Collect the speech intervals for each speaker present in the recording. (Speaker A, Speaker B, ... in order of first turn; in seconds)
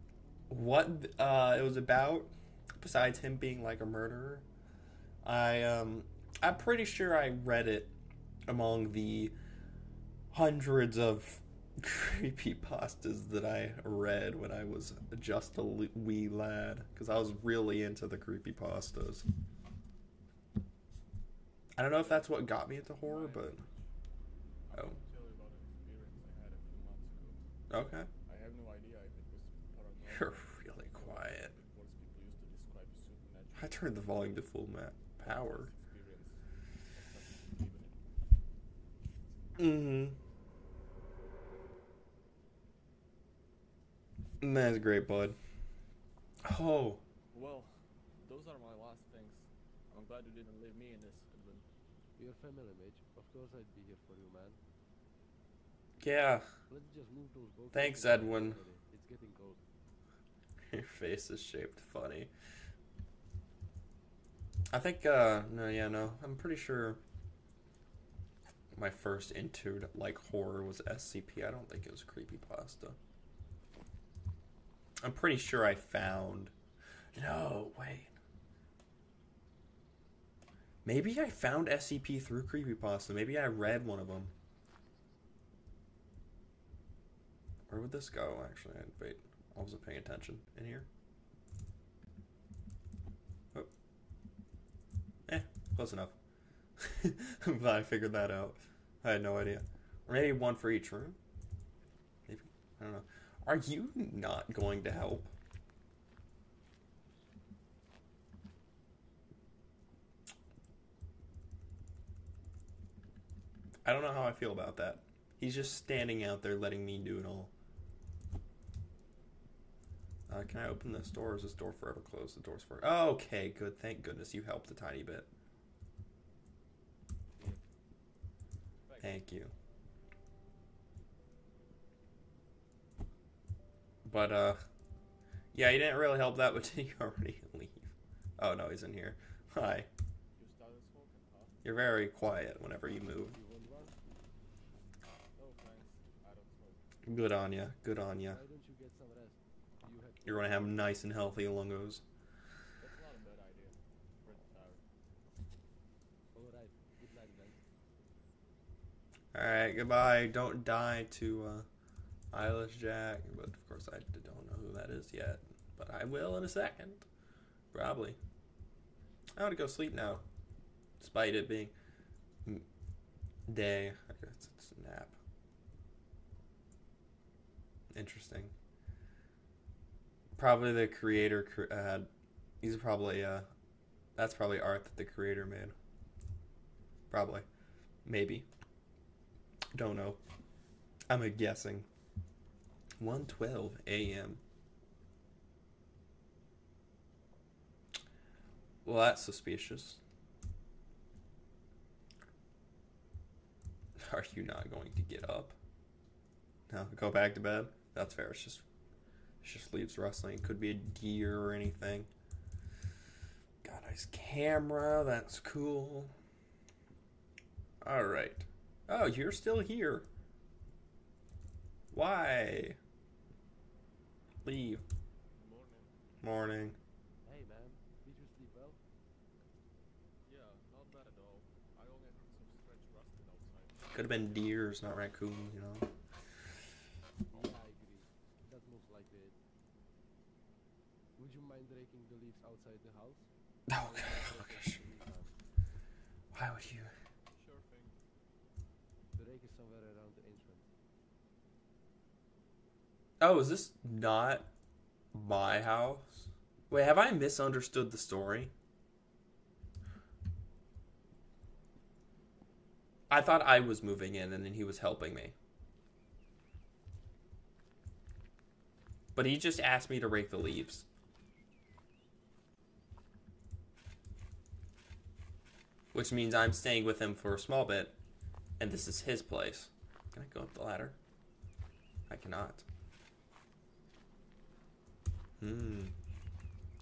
Speaker A: 0.5-4.5, 5.2-7.9, 8.5-9.3, 10.3-19.2, 21.8-23.6, 27.7-28.1, 30.1-31.5, 33.5-35.7, 39.6-40.2, 44.4-45.4, 46.4-47.0, 56.0-56.4, 57.7-58.6, 60.7-62.3, 64.7-67.0, 68.7-73.0, 75.0-76.5, 77.1-78.1, 80.8-84.3, 87.7-90.9, 95.3-96.1, 96.8-101.2, 102.3-105.3, 113.8-117.5, 120.3-125.3, 129.0-129.5, 134.0-134.6, 135.5-139.9, 141.6-143.4, 147.1-148.4, 150.2-152.0, 159.3-161.6, 162.3-167.1, 167.7-168.2, 169.3-170.2, 171.0-171.7, 173.5-175.2, 177.9-178.5, 180.4-182.1, 182.6-183.5, 184.2-185.7, 187.1-187.4, 188.1-188.4, 189.7-190.2, 191.1-191.8, 193.0-194.4, 198.8-200.0, 204.0-205.6, 206.7-208.6, 209.4-212.1, 213.6-216.1, 217.8-220.1, 221.9-222.8, 224.4-224.8, 226.2-226.8, 233.9-235.9, 243.7-244.8, 246.3-246.9, 253.2-254.5, 255.1-258.5, 263.1-265.3, 269.1-270.9, 275.9-278.0, 278.6-281.0, 282.1-282.6, 285.4-285.9
Speaker B: 22.0-22.3, 23.0-23.9, 24.7-27.4, 28.2-34.1, 35.2-38.0, 47.3-51.6, 128.8-129.2, 140.4-141.5, 145.3-146.8, 152.8-154.8, 225.3-225.9, 230.2-234.5, 247.3-247.9
Speaker C: 52.2-54.6, 56.7-59.6, 143.3-144.0, 148.1-150.9, 156.3-157.6, 227.2-228.8, 237.3-239.3, 241.2-245.3, 249.2-250.7